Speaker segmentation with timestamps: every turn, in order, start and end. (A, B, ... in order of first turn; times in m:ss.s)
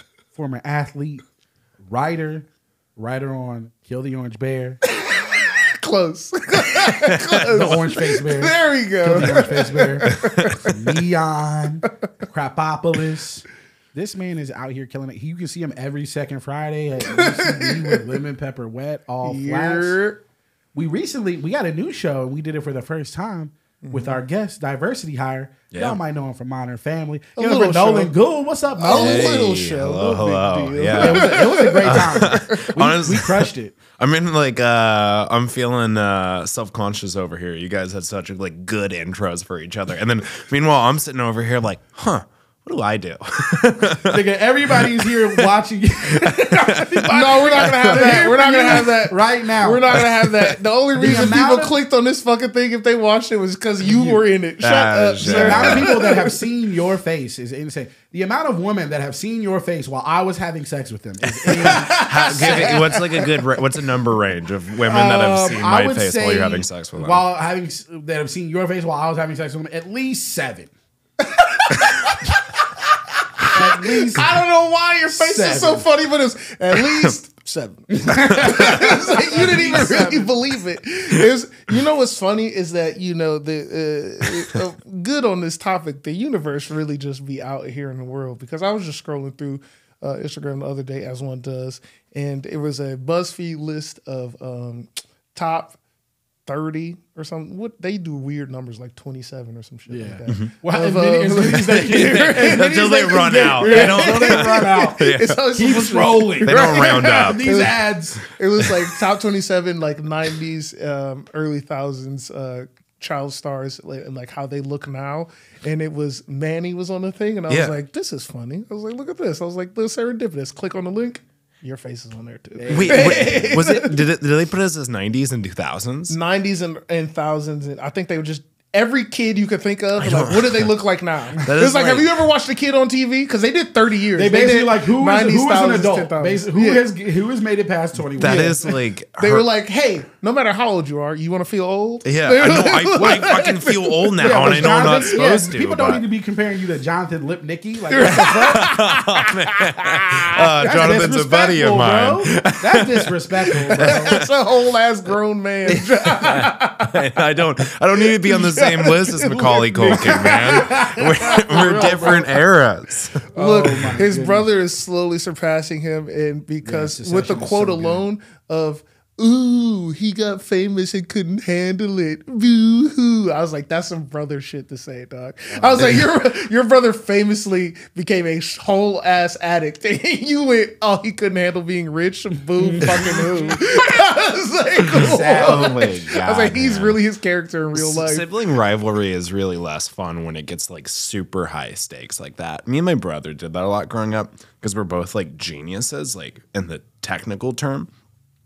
0:00.3-0:01.2 A
0:01.9-0:02.4 A
0:03.0-0:04.8 A
0:04.9-0:10.8 B
0:06.9-0:07.6 C
0:07.4-0:20.0 A
0:10.1-0:10.7 C
0:17.0-0:18.0 B
0:19.2-0:20.2 B
0:20.7-0:29.4 A
0:23.8-0:24.2 B
0:25.7-0:26.0 C
0:27.4-0:28.1 B
0:28.8-0:32.7 B
0:28.8-0:45.5 C
0:30.9-0:33.8 A
0:44.0-0:50.1 A
0:46.1-0:48.3 C
0:47.0-0:56.4 B
0:49.9-0:51.4 C
0:51.0-0:51.8 A
0:53.8-0:54.2 A
0:54.6-0:56.1 C
0:55.2-1:03.0 A
1:01.2-1:07.2 C
1:01.6-1:03.3 B
1:04.9-1:10.7 A
1:11.2-1:12.3 B
1:13.4-1:35.8 B
1:13.5-1:14.4 A
1:15.1-1:15.9 A
1:16.8-1:17.1 C
1:18.0-1:20.3 A
1:18.1-1:20.0 C
1:36.4-2:04.0 B
1:39.9-1:48.2 A
1:41.9-1:45.4 C
1:46.4-1:47.5 C
1:48.6-1:49.0 C
1:57.5-1:57.8 C
2:02.6-2:03.5 A
2:02.7-2:06.2 C
2:06.1-2:16.8 B
2:10.0-2:10.7 C
2:11.4-2:12.2 C
2:14.1-2:18.7 A
2:18.2-2:19.4 C
2:18.2-2:18.6 B
2:19.2-2:25.4 B
2:22.0-2:26.0 C
2:23.0-2:23.4 A
2:24.2-2:28.7 A
2:27.9-2:30.4 B
2:28.2-2:34.3 C
2:30.6-2:34.2 A
2:33.7-2:37.0 B
2:35.7-2:43.3 C
2:38.0-2:42.3 B
2:39.8-2:42.3 A
2:43.3-2:44.5 A
2:43.3-3:08.3 B
2:46.6-2:48.0 A
2:55.5-2:55.9 A
3:02.6-3:03.6 A
3:05.0-3:05.9 A
3:05.3-3:07.0 C
3:07.7-3:17.9 C